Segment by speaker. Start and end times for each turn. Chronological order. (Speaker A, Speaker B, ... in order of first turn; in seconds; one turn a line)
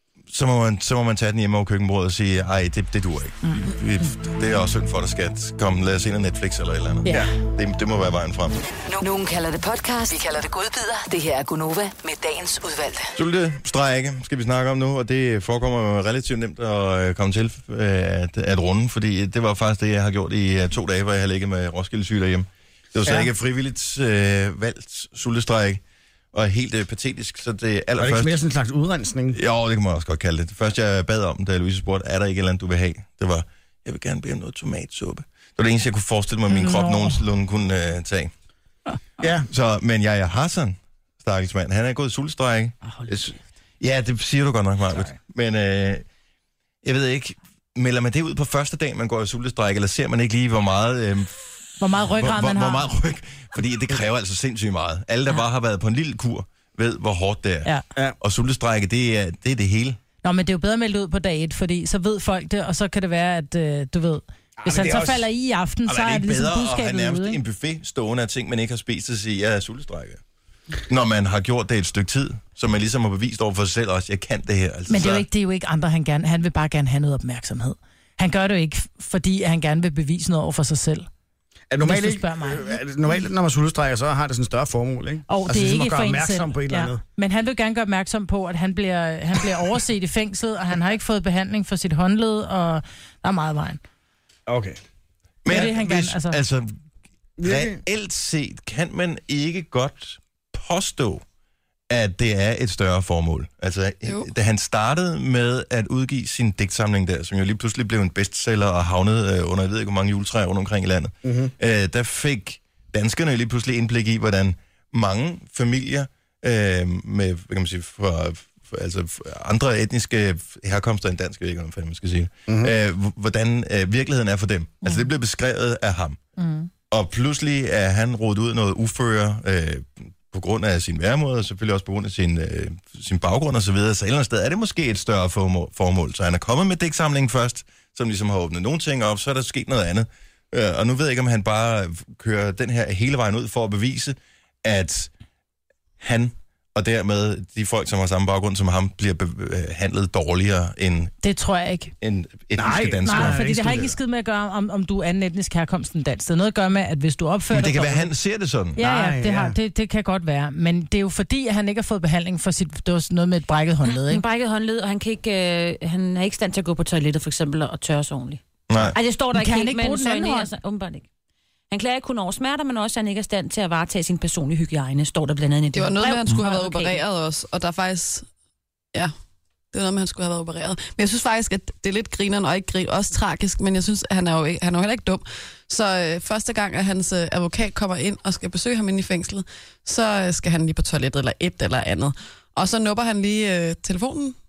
Speaker A: 0.3-8.6
Speaker B: 8.9-13.1
Speaker A: 13.2-25.8
Speaker C: 23.0-23.3
Speaker A: 26.3-28.4
Speaker C: 28.0-29.4
Speaker A: 29.3-38.3
Speaker D: 36.5-37.2
Speaker C: 39.2-39.5
Speaker A: 39.5-46.0
Speaker A: 46.8-57.7
Speaker D: 51.8-52.8
Speaker A: 58.2-60.0
Speaker D: 60.2-67.4
Speaker C: 64.6-65.2
Speaker A: 65.8-70.2
Speaker A: 70.8-75.2
Speaker D: 74.9-81.1
Speaker C: 81.7-87.0
Speaker D: 81.8-82.8
Speaker D: 85.3-93.8
Speaker C: 94.5-94.8
Speaker A: 95.4-96.7
Speaker D: 95.5-96.4
Speaker C: 97.4-97.8
Speaker A: 97.4-101.2
Speaker A: 101.9-126.2
Speaker C: 111.2-111.5
Speaker C: 122.5-122.7
Speaker D: 126.4-126.7
Speaker A: 126.9-145.1
Speaker A: 146.0-151.1
Speaker D: 151.2-151.9
Speaker A: 152.0-153.5
Speaker C: 152.6-153.9
Speaker D: 153.0-158.1
Speaker A: 157.5-158.8
Speaker C: 158.8-159.6
Speaker D: 158.8-164.2
Speaker E: 164.0-171.1
Speaker A: 168.7-168.9
Speaker D: 169.3-170.5
Speaker E: 171.7-177.0
Speaker F: 175.7-178.3
Speaker F: 179.7-194.3